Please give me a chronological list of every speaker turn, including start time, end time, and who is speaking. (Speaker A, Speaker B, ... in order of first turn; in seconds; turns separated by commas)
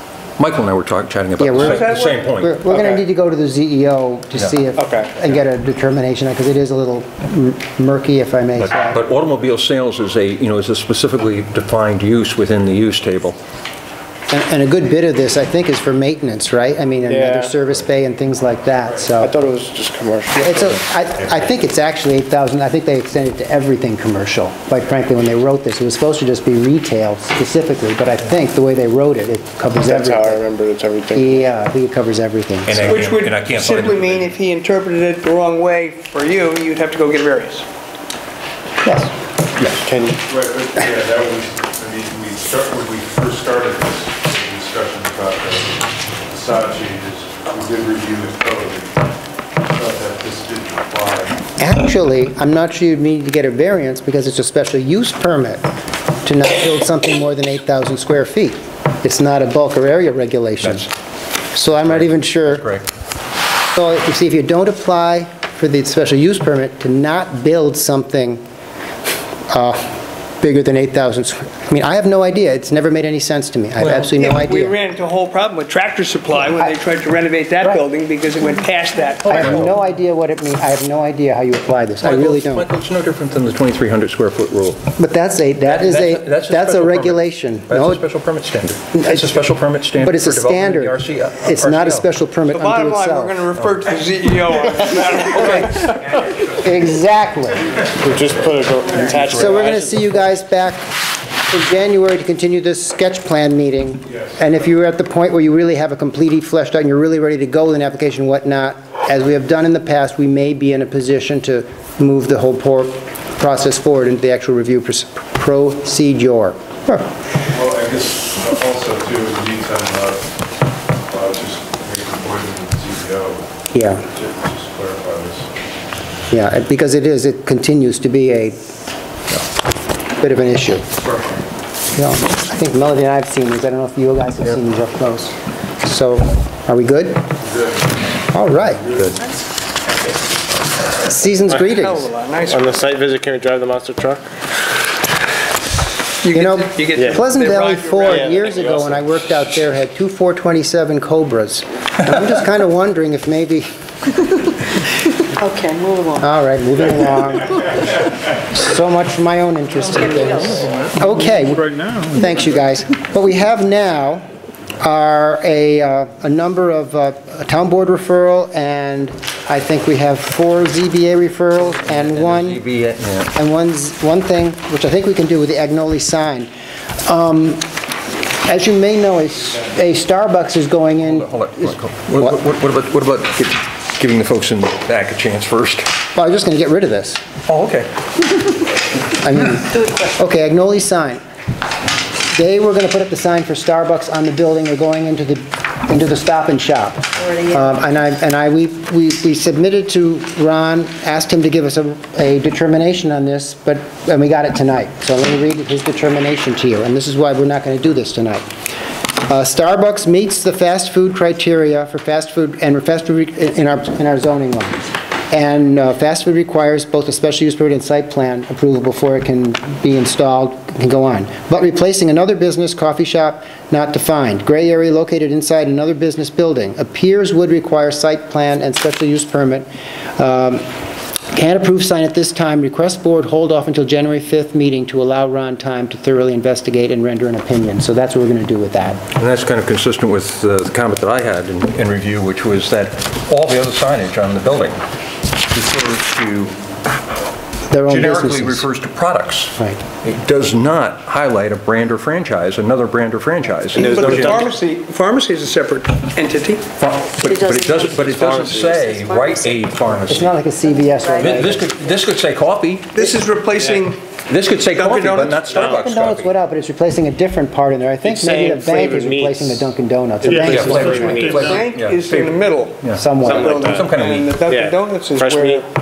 Speaker A: 0.4-2.5, Speaker B: 1.4-9.0, Speaker C: 1.6-2.8, Speaker C: 4.8-5.1, Speaker A: 8.6-13.4, Speaker B: 14.3-19.3, Speaker D: 17.0-17.6, Speaker D: 19.2-20.8, Speaker B: 20.3-30.4, Speaker D: 29.7-31.5, Speaker B: 31.1-32.9, Speaker A: 32.7-34.4, Speaker C: 32.8-37.6, Speaker B: 38.8-39.1, Speaker D: 39.8-40.2, Speaker E: 40.2-48.9, Speaker E: 49.7-51.4, Speaker B: 51.6-55.6, Speaker B: 56.2-60.9, Speaker A: 60.6-60.9, Speaker B: 61.5-62.7, Speaker A: 61.9-62.9, Speaker B: 63.7-68.4, Speaker B: 69.5-74.7, Speaker A: 73.8-74.1, Speaker C: 74.1-79.7, Speaker B: 76.3-76.7, Speaker A: 79.2-79.7, Speaker B: 79.2-82.7, Speaker A: 82.0-84.8, Speaker B: 85.0-88.0, Speaker A: 85.6-92.1, Speaker B: 88.9-93.4, Speaker C: 92.5-96.0, Speaker A: 93.6-93.8, Speaker B: 95.3-95.9, Speaker A: 95.7-96.5, Speaker B: 96.5-100.9, Speaker D: 98.0-100.3, Speaker A: 99.1-99.4, Speaker B: 101.5-117.1, Speaker E: 104.1-104.4, Speaker E: 117.5-120.3, Speaker E: 121.1-125.5, Speaker B: 123.7-124.0, Speaker B: 126.3-128.6, Speaker B: 130.2-130.8, Speaker B: 131.9-137.2, Speaker E: 137.4-137.9, Speaker B: 138.3-138.8, Speaker E: 138.8-139.2, Speaker B: 140.9-142.1, Speaker C: 141.5-142.9, Speaker D: 142.4-144.2, Speaker C: 146.2-148.3, Speaker B: 146.3-153.7, Speaker D: 146.9-147.2, Speaker D: 148.0-149.2, Speaker F: 155.4-156.3, Speaker B: 156.2-164.2, Speaker F: 159.9-160.9, Speaker B: 164.8-172.6, Speaker A: 171.9-173.3, Speaker B: 173.3-176.5, Speaker B: 177.0-177.7, Speaker B: 178.4-182.4, Speaker A: 181.0-185.9, Speaker B: 186.1-187.2, Speaker A: 187.5-187.9, Speaker B: 189.1-191.2, Speaker B: 192.3-208.4, Speaker F: 197.2-197.8, Speaker B: 209.3-230.6, Speaker B: 231.3-239.0, Speaker A: 239.1-244.8, Speaker A: 245.5-246.6, Speaker B: 247.7-248.7, Speaker A: 247.8-254.4, Speaker D: 253.7-254.5, Speaker C: 253.7-256.6, Speaker A: 256.8-260.3, Speaker F: 257.2-259.7, Speaker D: 258.3-258.6, Speaker B: 260.1-261.6, Speaker F: 260.6-261.5, Speaker A: 261.2-263.1, Speaker C: 262.9-264.0, Speaker D: 263.6-263.8, Speaker A: 264.3-266.3, Speaker C: 264.6-265.6, Speaker D: 265.5-265.8, Speaker B: 265.5-271.5, Speaker D: 268.0-269.7, Speaker D: 270.2-271.6, Speaker A: 270.4-274.4, Speaker C: 271.3-275.6, Speaker B: 272.9-273.6, Speaker D: 273.1-275.6